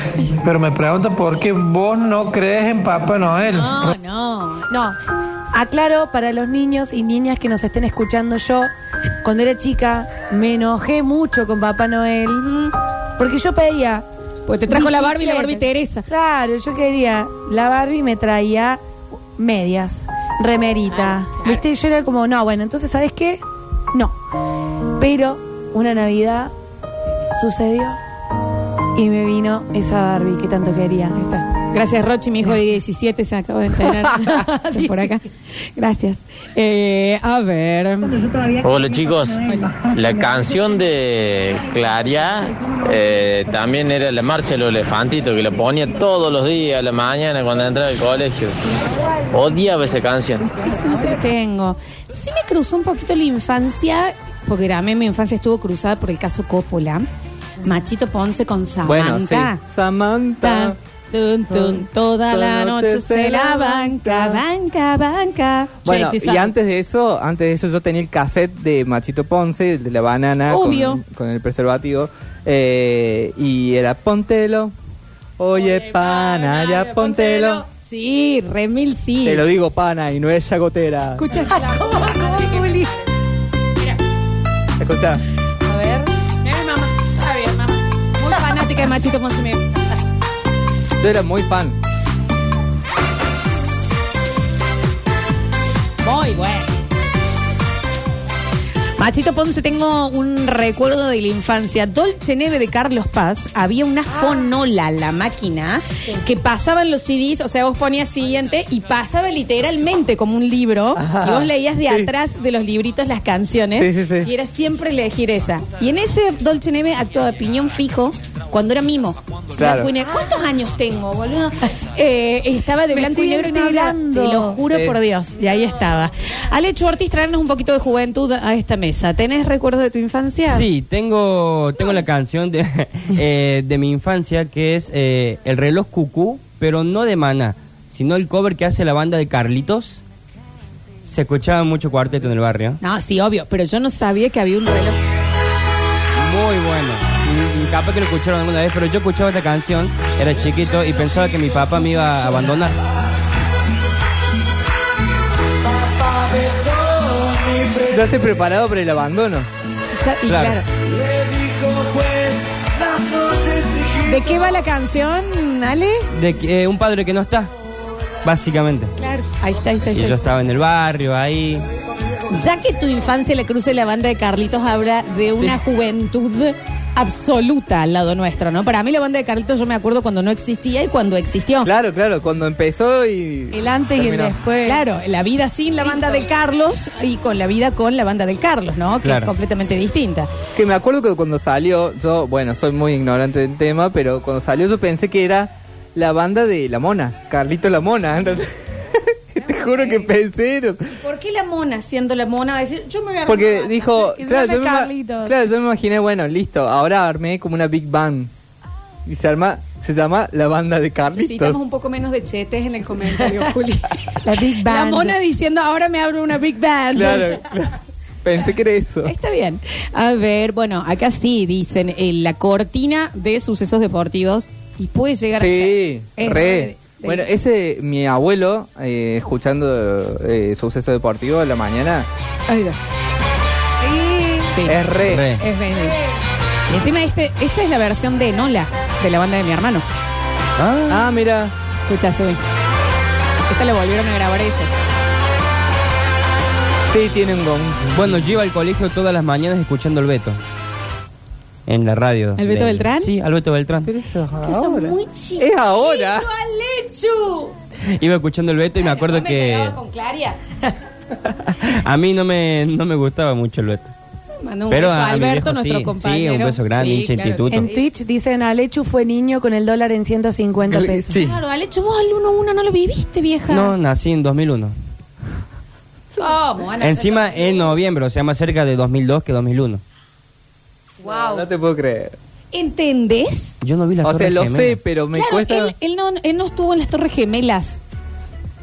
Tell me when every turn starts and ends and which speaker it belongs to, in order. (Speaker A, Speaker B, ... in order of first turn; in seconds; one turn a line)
Speaker A: 0.4-4.0
Speaker B: 3.5-4.7
Speaker C: 4.7-5.0
Speaker C: 5.5-8.7
Speaker C: 9.2-12.5
Speaker B: 12.3-12.7
Speaker C: 13.2-14.1
Speaker B: 14.5-16.1
Speaker C: 14.7-18.8
Speaker C: 19.4-24.2
Speaker B: 20.9-21.6
Speaker C: 25.0-26.5
Speaker C: 27.3-28.0
Speaker C: 28.9-31.2
Speaker B: 31.2-38.2
Speaker C: 34.0-35.2
Speaker D: 38.6-48.5
Speaker D: 49.3-50.5
Speaker B: 50.5-57.1
Speaker B: 57.6-59.6
Speaker E: 58.9-60.8
Speaker B: 60.4-66.5
Speaker E: 61.5-64.4
Speaker E: 65.8-74.7
Speaker B: 70.5-71.0
Speaker E: 75.4-77.6
Speaker B: 75.5-79.5
Speaker E: 79.2-81.2
Speaker B: 81.2-83.1
Speaker C: 81.3-82.9
Speaker E: 84.8-85.2
Speaker C: 85.7-86.1
Speaker B: 86.4-89.9
Speaker E: 91.0-91.8
Speaker B: 96.0-96.7
Speaker B: 99.0-130.7
Speaker E: 111.0-112.1
Speaker E: 113.8-114.3
Speaker E: 119.6-119.9
Speaker C: 122.9-124.6
Speaker E: 124.7-125.0
Speaker F: 130.4-140.0
Speaker B: 131.8-132.1
Speaker F: 141.1-142.8
Speaker B: 142.8-145.0
Speaker F: 146.2-152.8
Speaker E: 157.9-159.5
Speaker B: 160.0-160.7
Speaker F: 160.3-160.6
Speaker B: 164.0-166.1
Speaker F: 166.1-167.5
Speaker F: 168.2-168.9
Speaker B: 169.0-170.2
Speaker F: 169.9-171.6
Speaker B: 172.3-181.7
Speaker E: 181.7-184.3
Speaker C: 183.5-184.8
Speaker B: 184.6-190.3
Speaker F: 189.0-189.3
Speaker E: 190.6-200.8
Speaker B: 199.4-200.1
Speaker B: 200.9-204.0
Speaker E: 203.3-208.3
Speaker C: 204.1-205.4
Speaker E: 209.1-211.6
Speaker B: 211.1-217.4
Speaker C: 214.2-215.2
Speaker E: 216.9-217.7
Speaker E: 218.2-219.1
Speaker B: 219.0-227.3
Speaker E: 225.4-232.1
Speaker B: 232.5-232.8
Speaker C: 233.8-234.5
Speaker B: 234.4-236.0
Speaker E: 234.7-235.3
Speaker F: 235.0-235.4
Speaker B: 236.7-239.8
Speaker F: 240.6-241.1
Speaker E: 240.9-241.5
Speaker B: 241.9-242.4
Speaker B: 243.5-244.7
Speaker E: 246.9-248.3
Speaker F: 247.9-250.4
Speaker F: 251.7-253.9
Speaker B: 252.4-253.1
Speaker E: 253.8-256.3
Speaker B: 254.4-257.6
Speaker F: 258.0-259.8
Speaker B: 258.8-260.7
Speaker F: 261.6-263.9
Speaker B: 264.4-267.9
Speaker F: 264.7-267.7
Speaker C: 267.5-271.1
Speaker E: 270.7-271.4
Speaker B: 271.1-273.7
Speaker F: 273.5-274.7
Speaker B: 276.2-277.8
Speaker F: 276.8-279.8
Speaker B: 281.0-281.4
Speaker E: 281.1-282.2
Speaker B: 282.5-283.6
Speaker F: 283.6-284.9
Speaker E: 284.0-285.7
Speaker B: 285.1-287.8